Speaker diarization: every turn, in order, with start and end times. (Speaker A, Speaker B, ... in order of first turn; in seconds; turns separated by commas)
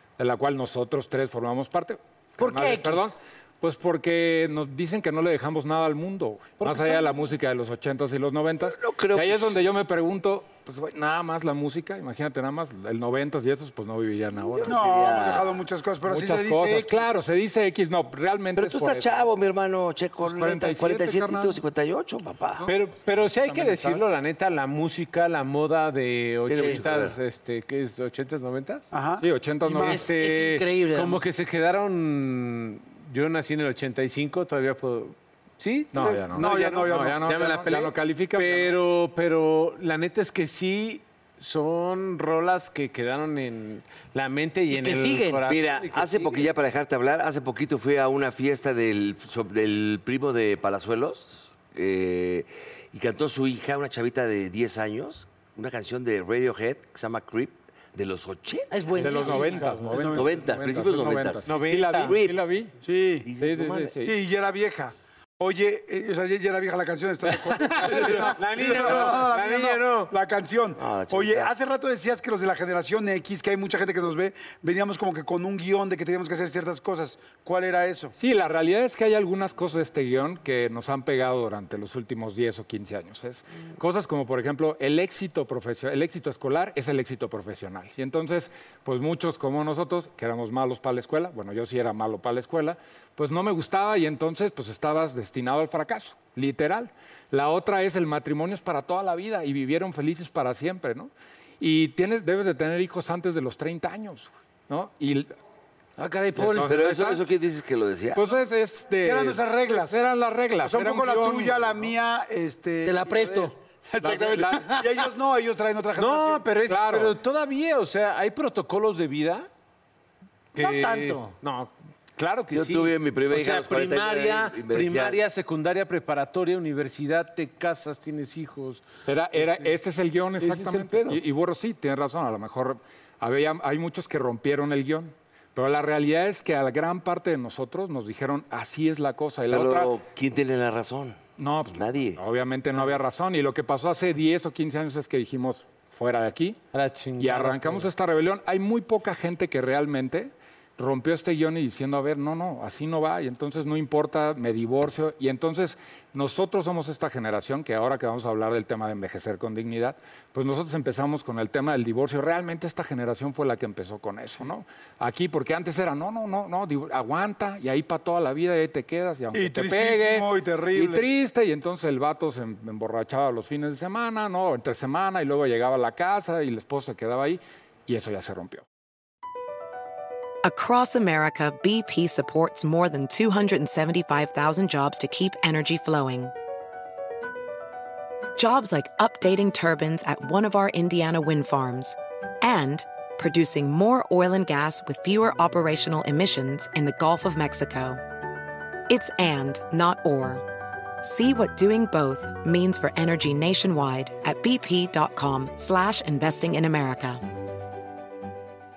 Speaker A: 0.2-14.8, Speaker B: 2.4-3.1, Speaker C: 6.6-7.0, Speaker D: 8.6-9.6, Speaker D: 14.4-15.6, Speaker E: 14.6-17.1, Speaker A: 16.0-19.1, Speaker D: 18.6-22.7, Speaker A: 20.2-21.6, Speaker A: 22.6-24.1, Speaker C: 22.7-28.9, Speaker D: 26.5-27.2, Speaker E: 28.9-30.0, Speaker A: 29.2-30.1, Speaker B: 29.8-31.2, Speaker C: 29.8-46.5, Speaker A: 35.9-38.7, Speaker E: 36.0-37.9, Speaker B: 44.7-45.4, Speaker D: 45.5-59.5, Speaker B: 58.7-59.8, Speaker A: 59.0-62.8, Speaker E: 59.9-60.3, Speaker D: 60.0-62.4, Speaker C: 61.4-62.2, Speaker E: 62.8-63.3, Speaker D: 63.2-63.9, Speaker A: 63.4-64.1, Speaker E: 64.0-78.1, Speaker C: 67.5-70.1, Speaker A: 67.9-68.4, Speaker D: 70.8-71.5, Speaker A: 78.2-105.3, Speaker B: 106.0-106.8, Speaker A: 106.4-107.2, Speaker D: 106.6-108.2, Speaker A: 108.1-111.9, Speaker E: 109.0-110.0, Speaker E: 110.6-116.5, Speaker B: 112.8-114.9, Speaker C: 114.0-114.4, Speaker A: 114.1-114.6, Speaker C: 116.0-119.5, Speaker A: 116.7-117.2, Speaker C: 120.5-128.8, Speaker B: 120.5-121.3, Speaker D: 122.5-125.2, Speaker A: 129.1-139.9, Speaker C: 129.3-129.7, Speaker C: 130.4-131.2, Speaker D: 139.5-141.2, Speaker A: 141.4-146.6, Speaker D: 141.7-142.2, Speaker C: 146.7-147.9, Speaker A: 147.2-178.6, Speaker E: 169.3-171.1, Speaker F: 180.4-186.3, Speaker F: 188.3-198.0, Speaker F: 198.9-200.4, Speaker F: 201.0-207.2